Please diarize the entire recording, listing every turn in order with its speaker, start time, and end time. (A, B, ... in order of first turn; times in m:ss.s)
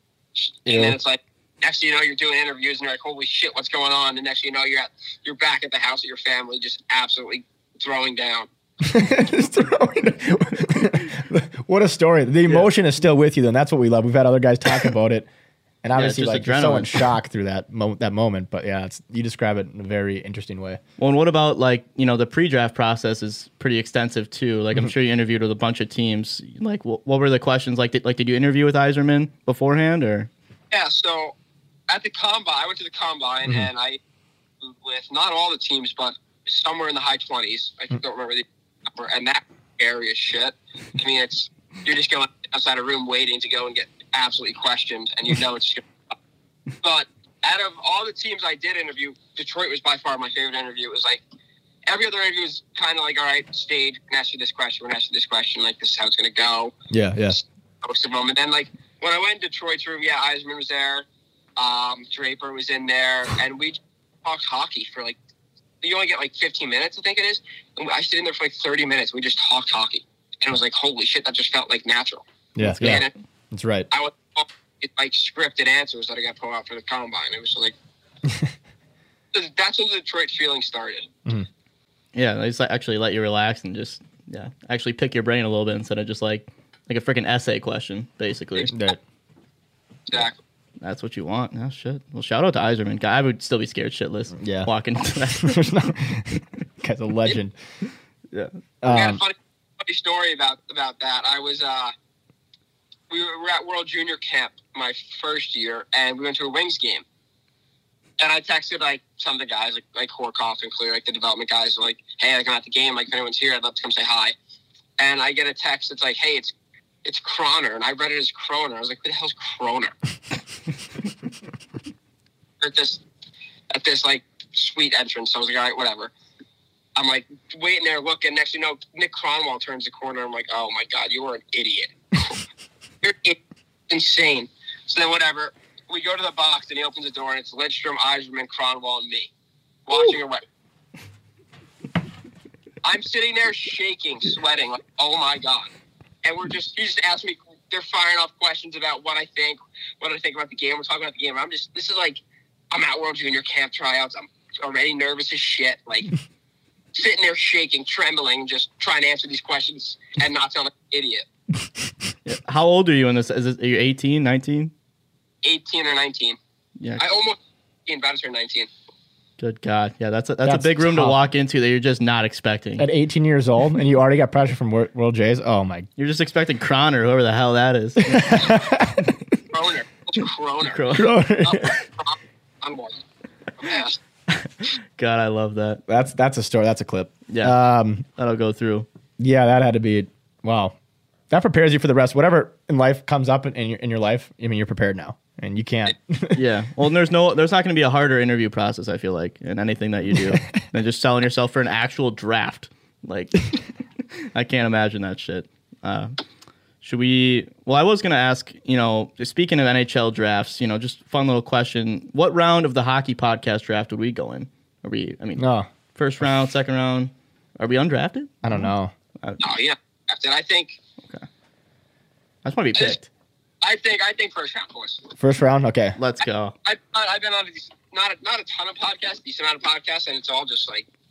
0:00.4-0:08.5 A
0:00.7-0:01.0 B
0:08.8-0:15.3 B
0:15.8-0:20.8 B
0:16.0-0:17.1 C
0:21.0-0:30.3 C
0:30.7-0:31.3 A
0:31.9-0:34.0 A
0:34.6-0:45.8 A
0:46.8-0:51.2 A
0:51.9-0:56.7 A
0:56.9-0:57.4 B
0:57.3-1:01.0 A
1:01.6-1:05.2 A
1:05.8-1:12.2 A
1:12.6-1:13.9 B
1:12.6-1:13.1 C
1:12.8-1:13.1 A
1:13.9-1:17.7 A
1:19.3-1:21.1 A
1:22.2-1:28.7 C
1:28.7-1:29.0 B
1:30.1-1:30.4 A
1:30.8-1:35.9 C
1:34.4-1:34.7 B
1:35.3-1:37.6 B
1:38.8-1:39.2 B
1:38.9-1:41.9 A
1:43.1-1:47.0 A
1:48.2-1:54.3 A
1:55.0-1:56.5 A
1:57.0-1:59.9 A
2:02.6-2:03.0 A
2:03.7-2:06.1 A
2:07.0-2:12.4 A
2:13.0-2:13.4 A
2:13.9-2:19.3 A
2:19.9-2:20.4 A
2:22.8-2:25.7 A
2:26.2-2:36.1 A
2:36.9-2:41.2 A
2:42.2-2:44.7 C
2:45.4-2:46.4 A
2:47.0-2:48.7 A
2:49.4-2:52.9 C
2:50.4-2:51.2 B
2:52.8-2:55.9 B
2:56.0-2:58.6 C
2:58.0-2:59.1 B
2:59.5-3:00.8 A
3:00.7-3:01.1 C
3:00.9-3:01.7 B
3:01.4-3:03.0 A
3:03.6-3:04.0 A
3:04.3-3:05.8 C
3:05.9-3:08.1 B
3:07.3-3:07.6 C
3:08.2-3:08.9 C
3:09.2-3:10.8 B
3:11.3-3:16.4 B
3:16.4-3:23.6 C
3:24.3-3:26.2 C
3:26.8-3:35.4 C
3:35.4-3:35.7 B
3:36.0-3:38.5 C
3:38.4-3:38.9 B
3:39.4-3:40.8 A
3:42.4-3:43.1 C
3:43.6-3:45.1 A
3:45.2-3:46.0 B
3:46.0-3:46.6 C
3:46.6-3:50.9 A